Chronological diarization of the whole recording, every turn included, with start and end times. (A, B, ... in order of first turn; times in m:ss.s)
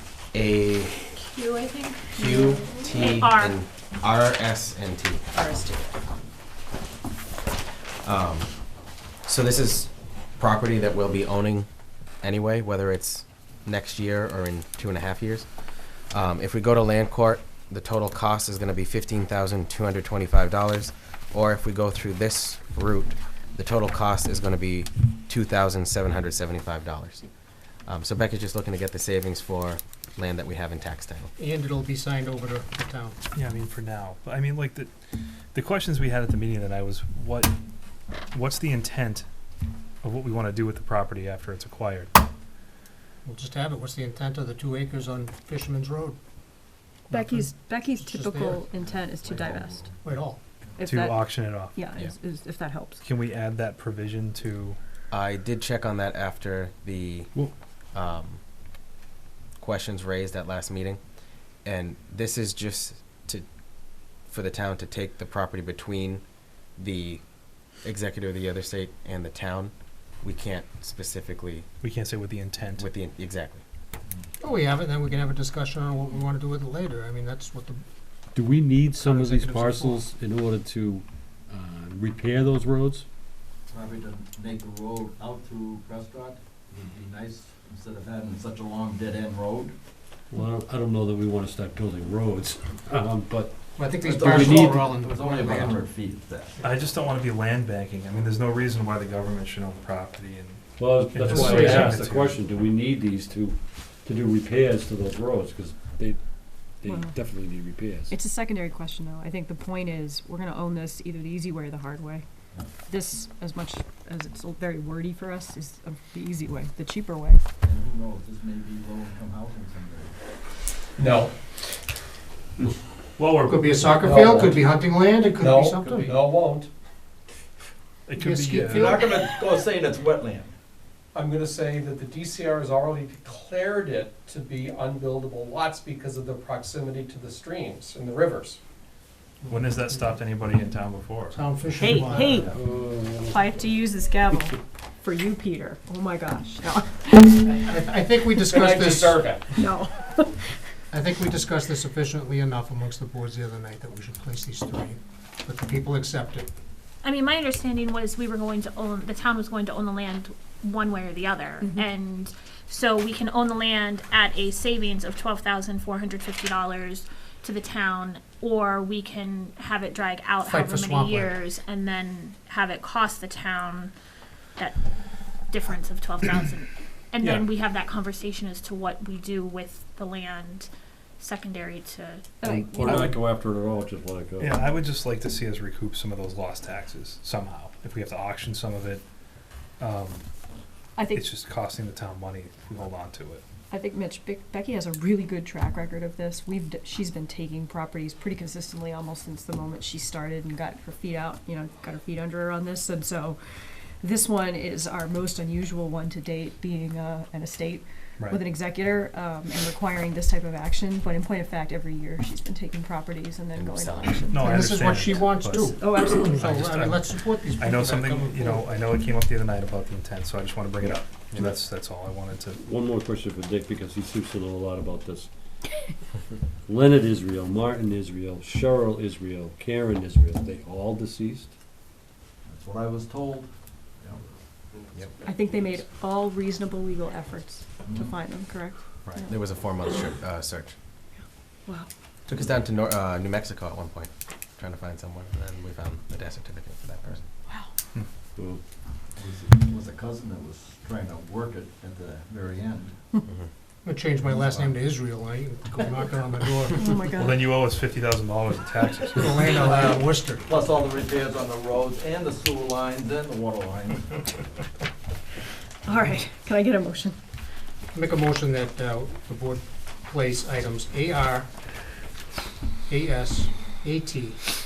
0:00.3-0:00.9 A
0:01.2-0:03.6 B
0:02.1-0:05.2 A
0:05.3-0:06.0 C
0:08.0-0:11.7 A
0:12.2-0:27.3 A
0:27.8-0:31.3 A
0:31.4-0:33.2 D
0:33.3-0:34.9 E
0:35.5-0:37.5 E
0:38.3-0:39.3 E
0:40.0-0:42.1 E
0:43.2-0:46.2 D
0:47.1-0:48.7 D
0:47.1-0:49.9 C
0:49.2-0:49.8 F
0:50.0-0:50.4 D
0:50.8-0:53.0 C
0:50.8-0:51.8 E
0:53.0-0:54.8 E
0:55.1-0:57.3 A
0:57.9-0:58.4 A
0:59.6-1:11.7 A
1:11.8-1:12.9 E
1:12.8-1:13.6 A
1:14.4-1:17.8 D
1:18.3-1:23.0 G
1:19.0-1:20.0 D
1:23.7-1:29.7 F
1:30.3-1:33.8 G
1:33.8-1:35.8 D
1:34.0-1:36.6 F
1:34.4-1:34.8 G
1:36.6-1:42.3 E
1:40.8-1:46.2 G
1:41.3-1:41.8 D
1:46.8-1:48.1 G
1:46.8-1:47.1 C
1:48.1-1:52.2 C
1:52.8-1:57.4 C
1:57.6-2:00.2 F
2:01.0-2:01.3 H
2:03.2-2:04.4 E
2:03.4-2:06.1 D
2:03.9-2:04.6 H
2:05.4-2:06.7 H
2:08.1-2:09.1 E
2:08.2-2:09.0 D
2:08.7-2:10.5 F
2:11.1-2:18.6 H
2:19.5-2:21.4 E
2:21.3-2:22.4 D
2:21.8-2:22.5 C
2:22.5-2:23.5 G
2:23.2-2:27.7 C
2:27.6-2:29.2 D
2:28.5-2:29.6 H
2:29.5-2:30.6 C
2:30.9-2:36.5 D
2:37.0-2:53.9 B
2:50.4-2:51.4 D
2:55.5-3:02.3 B
3:02.4-3:03.1 C
3:02.4-3:04.6 G
3:04.4-3:09.0 E
3:09.8-3:10.2 E
3:11.0-3:11.3 C
3:11.1-3:13.4 E
3:13.7-3:36.5 C
3:33.5-3:34.3 A
3:34.3-3:42.6 E
3:34.4-3:38.7 D
3:41.4-3:41.6 G
3:42.5-3:45.3 G
3:46.6-3:51.5 G
3:52.4-3:55.0 F
3:55.2-3:59.3 C
3:57.9-3:58.1 F
3:59.2-4:00.7 A
4:01.2-4:01.9 C
4:02.3-4:07.2 A
4:08.4-4:08.6 G
4:09.1-4:13.0 F
4:13.8-4:16.9 D
4:14.3-4:14.7 F
4:16.7-4:17.6 C
4:17.2-4:19.6 E
4:19.1-4:20.5 D
4:19.6-4:24.4 F
4:25.8-4:27.2 C
4:27.9-4:31.5 D
4:32.9-4:34.4 D